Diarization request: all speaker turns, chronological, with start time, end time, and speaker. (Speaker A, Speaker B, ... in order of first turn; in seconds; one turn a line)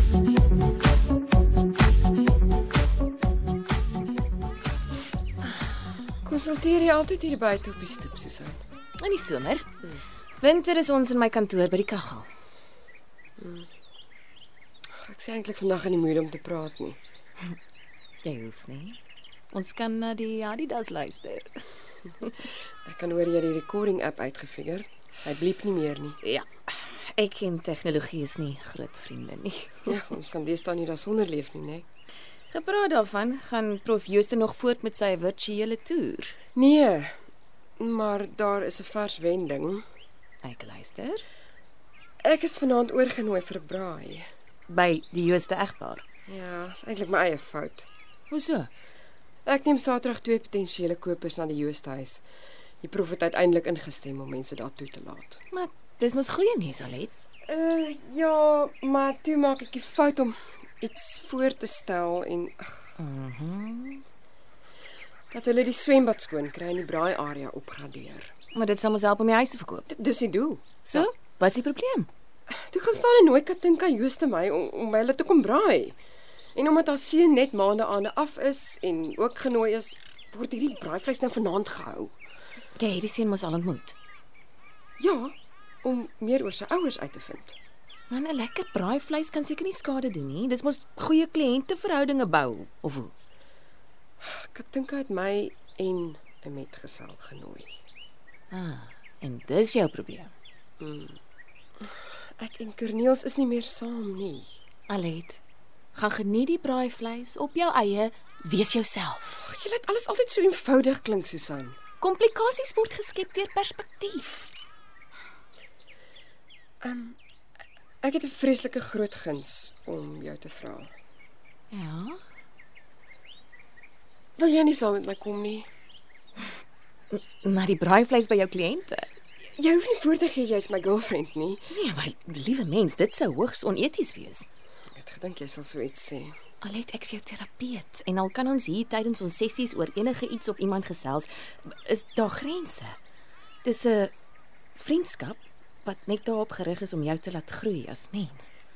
Speaker A: 6.2-8.6
Speaker B: 9.0-9.7
Speaker B: 10.4-12.3
Speaker A: 13.4-13.7
Speaker A: 15.0-17.0
Speaker B: 18.2-19.0
Speaker B: 19.5-21.6
Speaker B: 22.2-22.5
Speaker A: 22.9-26.2
Speaker B: 26.2-29.9
Speaker A: 29.9-31.9
Speaker B: 32.5-36.4
Speaker A: 36.5-37.1
Speaker A: 37.8-39.8
Speaker B: 40.4-41.2
Speaker A: 42.2-44.3
Speaker B: 44.7-46.0
Speaker A: 46.3-47.9
Speaker B: 48.3-48.7
Speaker A: 49.5-52.2
Speaker A: 52.8-55.4
Speaker B: 55.5-57.2
Speaker A: 57.5-62.9
Speaker B: 63.0-64.0
Speaker A: 65.3-68.3
Speaker B: 68.5-69.9
Speaker A: 69.9-71.1
Speaker B: 70.8-72.1
Speaker A: 72.5-76.0
Speaker A: 76.5-82.1
Speaker B: 82.8-84.0
Speaker A: 85.0-87.5
Speaker B: 88.1-93.1
Speaker A: 94.2-97.8
Speaker B: 98.5-100.3
Speaker A: 100.8-101.2
Speaker A: 101.8-104.5
Speaker B: 104.9-105.4
Speaker B: 105.9-109.4
Speaker A: 109.4-111.8
Speaker B: 112.0-114.5
Speaker A: 116.8-117.2
Speaker A: 118.0-120.9
Speaker B: 121.7-122.2
Speaker A: 124.4-125.7
Speaker B: 127.1-129.1
Speaker A: 129.6-131.7
Speaker B: 131.7-134.4
Speaker A: 134.9-136.3
Speaker B: 136.6-143.0
Speaker B: 143.6-144.1
Speaker B: 144.8-148.5